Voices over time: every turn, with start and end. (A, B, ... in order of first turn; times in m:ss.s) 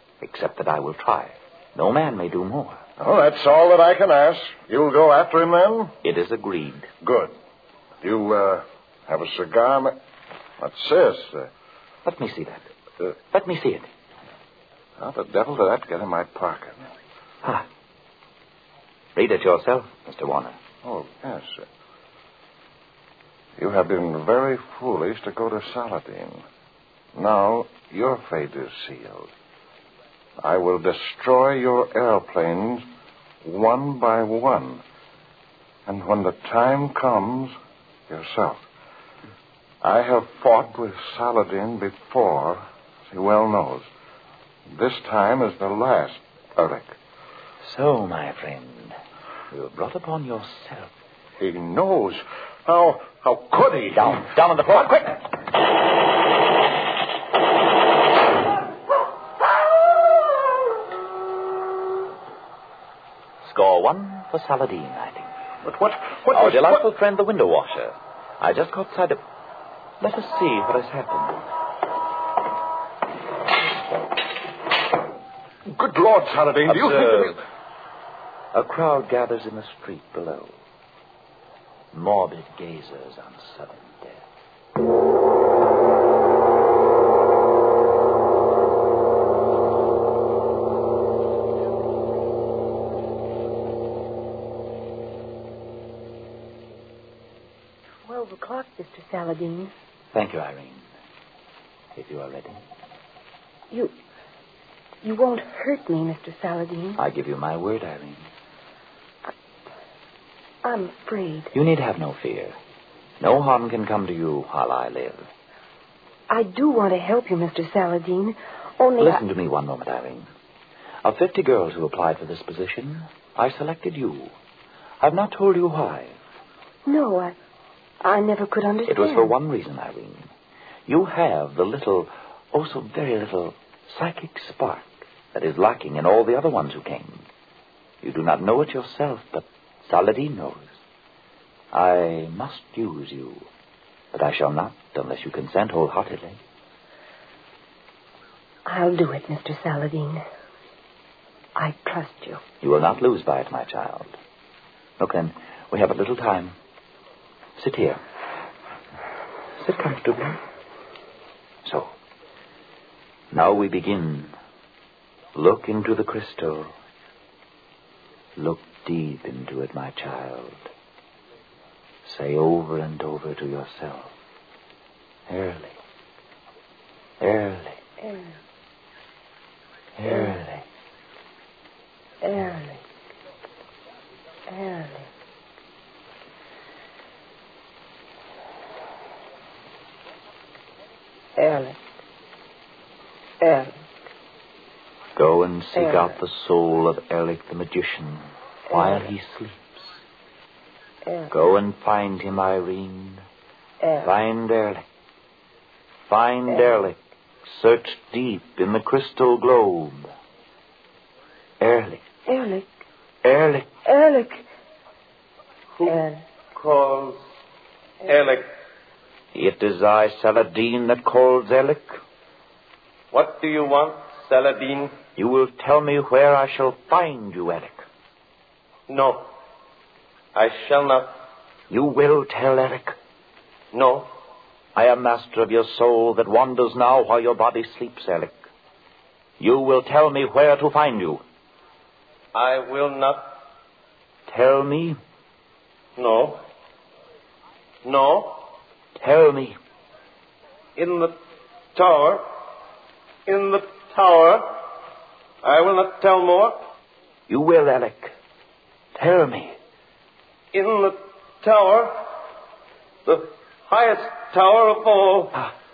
0:00.2-0:02.8 A
0:03.0-0:06.0 B
0:06.0-0:06.9 A
0:07.0-0:07.3 B
0:08.0-0:10.0 B
0:10.6-0:11.5 B
0:12.0-0:13.9 A
0:15.0-0:16.9 B
0:19.2-0:20.6 A
0:20.8-0:21.6 B
0:23.6-0:26.4 B
0:27.2-0:29.3 B
0:30.4-0:32.8 B
0:33.4-0:34.8 B
0:35.9-0:37.5 B
0:38.1-0:38.6 B
0:39.8-0:43.8 B
0:44.7-0:47.0 B
0:47.6-0:49.0 A
0:49.5-0:50.9 A
0:51.4-0:54.2 B
0:54.0-0:55.2 A
1:03.4-1:05.3 A
1:05.6-1:06.8 B
1:06.3-1:09.2 A
1:10.0-1:11.4 A
1:15.7-1:17.4 B
1:16.7-1:17.4 A
1:18.5-1:20.6 A
1:21.9-1:24.2 A
1:38.1-1:39.7 C
1:40.1-1:40.8 A
1:42.0-1:42.6 A
1:45.0-1:47.0 C
1:47.0-1:48.3 A
1:50.6-1:51.5 C
1:51.5-1:52.6 A
1:53.2-1:55.3 A
1:56.3-1:59.2 C
1:59.0-2:00.3 A
2:01.0-2:04.3 A
2:05.0-2:06.2 A
2:06.9-2:07.4 C
2:08.0-2:09.3 C
2:08.9-2:10.3 A
2:10.9-2:17.3 A
2:18.0-2:20.7 A
2:21.7-2:23.5 A
2:24.1-2:26.4 A
2:28.7-2:30.2 C
2:31.6-2:32.4 C
2:32.6-2:34.1 A
2:35.0-2:36.6 A
2:37.6-2:38.0 A
2:39.6-2:40.4 A
2:41.6-2:41.9 A
2:43.3-2:44.3 A
2:45.4-2:46.7 A
2:48.4-2:50.7 A
2:52.0-2:54.1 A
2:55.3-2:55.8 A
2:57.2-2:57.8 A
3:00.0-3:00.6 A
3:02.2-3:02.7 C
3:04.5-3:05.0 C
3:11.4-3:11.8 C
3:13.4-3:13.7 C
3:15.2-3:20.0 A
3:21.3-3:23.2 A
3:24.0-3:24.8 A
3:26.1-3:30.1 A
3:31.6-3:32.0 A
3:32.3-3:32.7 C
3:33.2-3:33.7 A
3:33.8-3:34.4 C
3:35.8-3:37.2 D
3:38.0-3:38.5 D
3:39.3-3:42.0 A
3:43.1-3:44.9 D
3:45.2-3:47.8 A
3:48.9-3:49.3 D
3:50.3-3:51.2 D
3:51.7-3:53.0 A
3:53.7-3:54.1 D
3:54.8-3:58.4 A
3:59.4-4:01.2 A
4:02.3-4:03.3 D
4:04.3-4:05.0 A
4:06.0-4:06.4 D
4:07.8-4:08.4 D
4:09.0-4:09.6 A
4:10.8-4:11.2 D
4:11.8-4:12.3 D
4:13.3-4:14.5 D
4:15.4-4:16.6 D
4:17.3-4:18.1 A
4:19.0-4:19.6 A
4:20.5-4:22.0 D
4:23.0-4:25.4 D